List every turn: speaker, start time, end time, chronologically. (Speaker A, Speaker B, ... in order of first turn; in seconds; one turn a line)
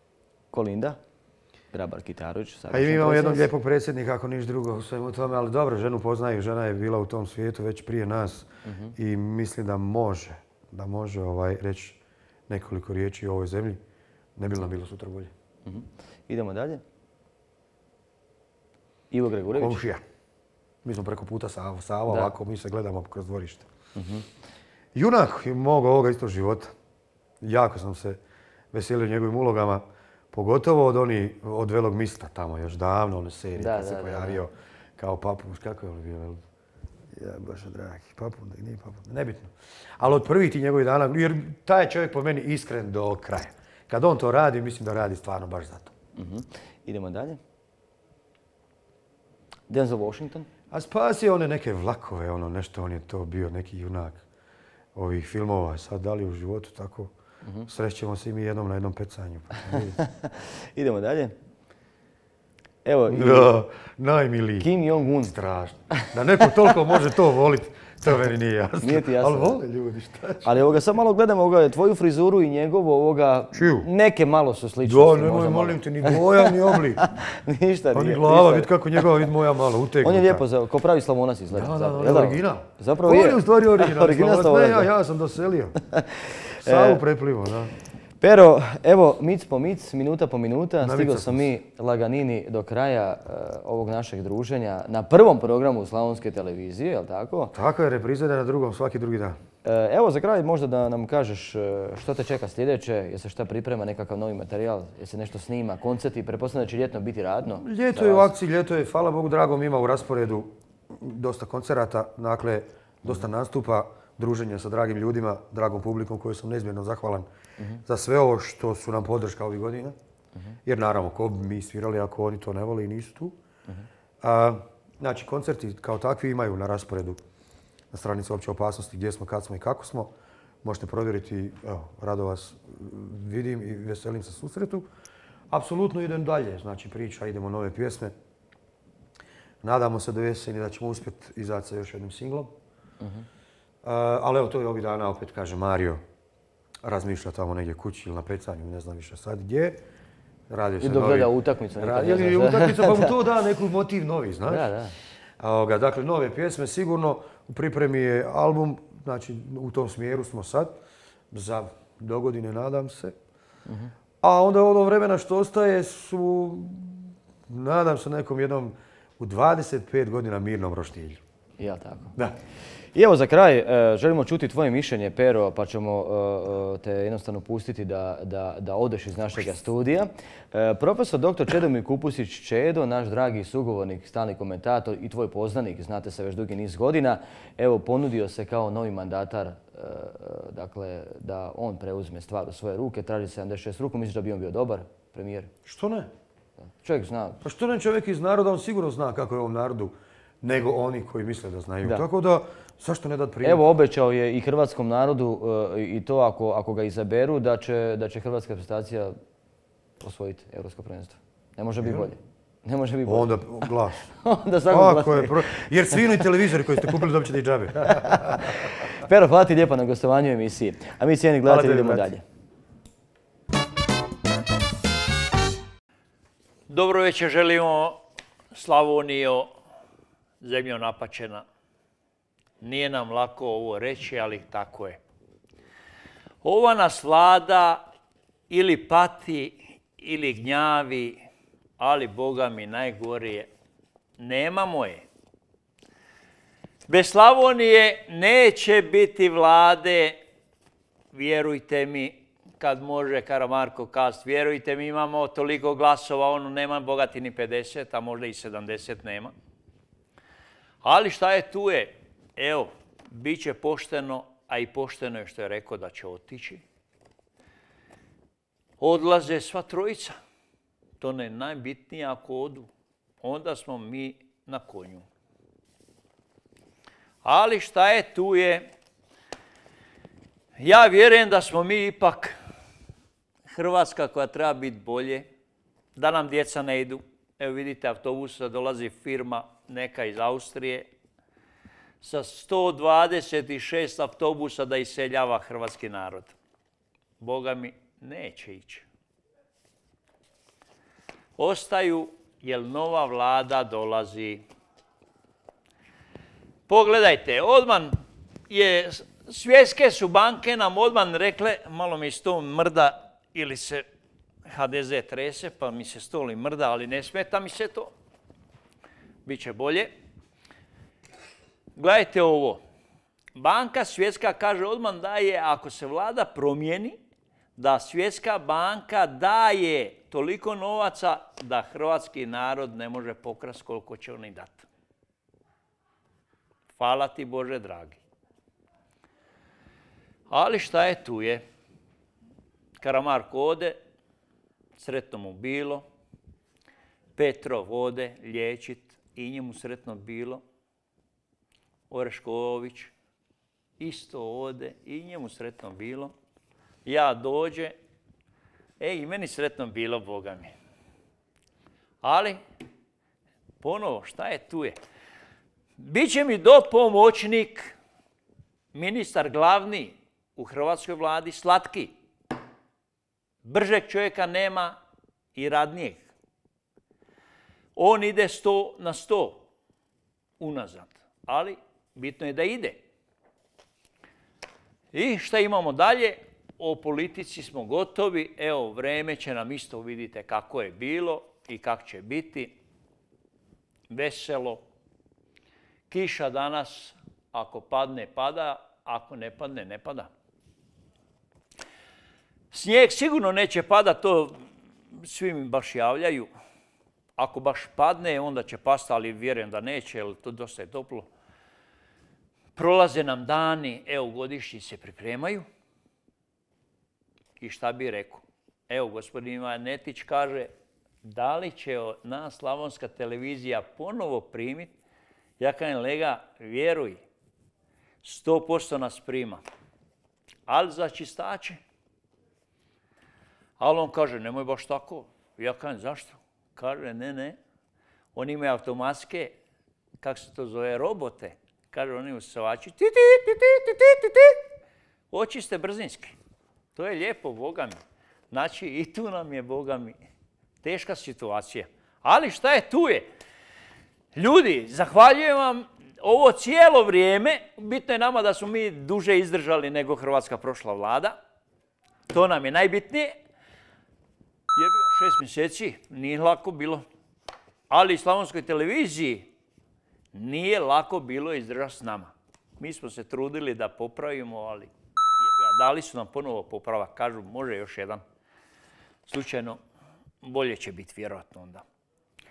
Speaker A: 0.5-1.0
Speaker A: 1.7-3.5
Speaker B: 2.7-13.8
Speaker A: 8.7-8.9
Speaker B: 14.4-15.3
Speaker A: 15.7-16.8
Speaker A: 19.1-19.8
Speaker B: 19.6-20.0
Speaker B: 20.8-23.7
Speaker A: 22.1-22.3
Speaker A: 24.0-24.3
Speaker B: 24.9-26.7
Speaker B: 27.4-28.2
Speaker B: 28.7-36.4
Speaker A: 33.6-34.4
Speaker B: 37.1-45.9
Speaker A: 46.2-47.4
Speaker A: 49.7-50.5
Speaker B: 50.7-54.2
Speaker B: 55.0-57.1
Speaker B: 57.7-60.0
Speaker A: 60.0-61.4
Speaker A: 62.9-63.5
Speaker B: 63.1-64.7
Speaker A: 64.6-65.3
Speaker B: 65.2-70.6
Speaker A: 68.8-69.6
Speaker A: 70.4-79.0
Speaker B: 73.5-73.9
Speaker B: 74.8-77.0
Speaker B: 77.9-80.4
Speaker A: 80.0-84.9
Speaker B: 81.5-85.8
Speaker A: 85.9-87.0
Speaker B: 86.6-87.7
Speaker A: 88.2-97.5
Speaker B: 90.8-91.5
Speaker B: 97.5-99.4
Speaker A: 99.6-108.3
Speaker B: 107.6-117.3
Speaker B: 117.9-120.0
Speaker B: 120.7-123.4
Speaker B: 124.2-127.2
Speaker B: 127.9-134.9
Speaker B: 135.5-138.1
Speaker B: 139.6-142.6
Speaker A: 143.0-143.3
Speaker B: 143.8-146.0
Speaker B: 146.8-149.8
Speaker B: 150.5-154.7
Speaker A: 150.8-153.2
Speaker A: 154.5-154.9
Speaker B: 155.4-160.8
Speaker B: 161.3-163.2
Speaker B: 164.2-171.2
Speaker A: 171.6-172.2
Speaker A: 172.9-195.5
Speaker B: 195.7-196.1
Speaker A: 196.8-197.4
Speaker B: 197.4-203.6
Speaker A: 203.4-209.2
Speaker A: 210.0-216.0
Speaker B: 211.8-212.1
Speaker B: 213.1-214.1
Speaker B: 214.7-218.7
Speaker A: 217.9-222.2
Speaker B: 221.4-222.2
Speaker C: 226.7-228.0
Speaker C: 228.5-229.5
Speaker C: 230.4-231.4
Speaker C: 232.6-235.0
Speaker C: 236.4-237.8
Speaker C: 238.5-241.2
Speaker C: 241.8-243.5
Speaker C: 244.2-245.0
Speaker C: 246.9-250.2
Speaker C: 251.1-259.3
Speaker C: 260.8-266.6
Speaker C: 268.8-270.2
Speaker C: 271.0-272.7
Speaker C: 273.2-275.1
Speaker C: 277.2-278.7
Speaker C: 280.6-282.4
Speaker C: 283.5-285.3
Speaker C: 286.0-290.9
Speaker C: 292.0-296.4
Speaker C: 297.2-298.9
Speaker C: 301.4-304.4
Speaker C: 306.7-308.0
Speaker C: 308.5-313.9
Speaker C: 314.5-317.9
Speaker C: 319.2-319.9
Speaker C: 321.8-322.6
Speaker C: 323.4-327.0
Speaker C: 327.6-334.7
Speaker C: 336.8-338.0
Speaker C: 340.3-341.4
Speaker C: 342.8-343.8
Speaker C: 344.8-345.9
Speaker C: 347.2-350.4
Speaker C: 351.9-352.9
Speaker C: 353.8-356.1
Speaker C: 356.9-357.8
Speaker C: 358.8-360.5
Speaker C: 362.0-362.4
Speaker C: 363.6-364.8
Speaker C: 365.8-367.8
Speaker C: 368.7-371.9
Speaker C: 373.4-374.8
Speaker C: 375.4-376.0
Speaker C: 377.8-379.4
Speaker C: 380.4-382.8
Speaker C: 384.9-392.5
Speaker C: 393.9-394.6
Speaker C: 395.9-400.1
Speaker C: 402.5-404.4
Speaker C: 405.0-406.3
Speaker C: 407.2-411.1
Speaker C: 412.6-415.5
Speaker C: 417.4-420.5
Speaker C: 421.0-424.7
Speaker C: 425.4-427.0
Speaker C: 428.0-429.4
Speaker C: 430.5-431.6
Speaker C: 433.6-437.4
Speaker C: 438.1-439.4
Speaker C: 440.0-444.4
Speaker C: 445.1-446.1
Speaker C: 446.8-447.8
Speaker C: 448.3-450.0
Speaker C: 450.6-453.1
Speaker C: 454.1-461.2
Speaker C: 462.1-463.2
Speaker C: 464.5-466.9
Speaker C: 467.7-469.3
Speaker C: 470.1-478.0
Speaker C: 479.1-479.6
Speaker C: 480.2-481.6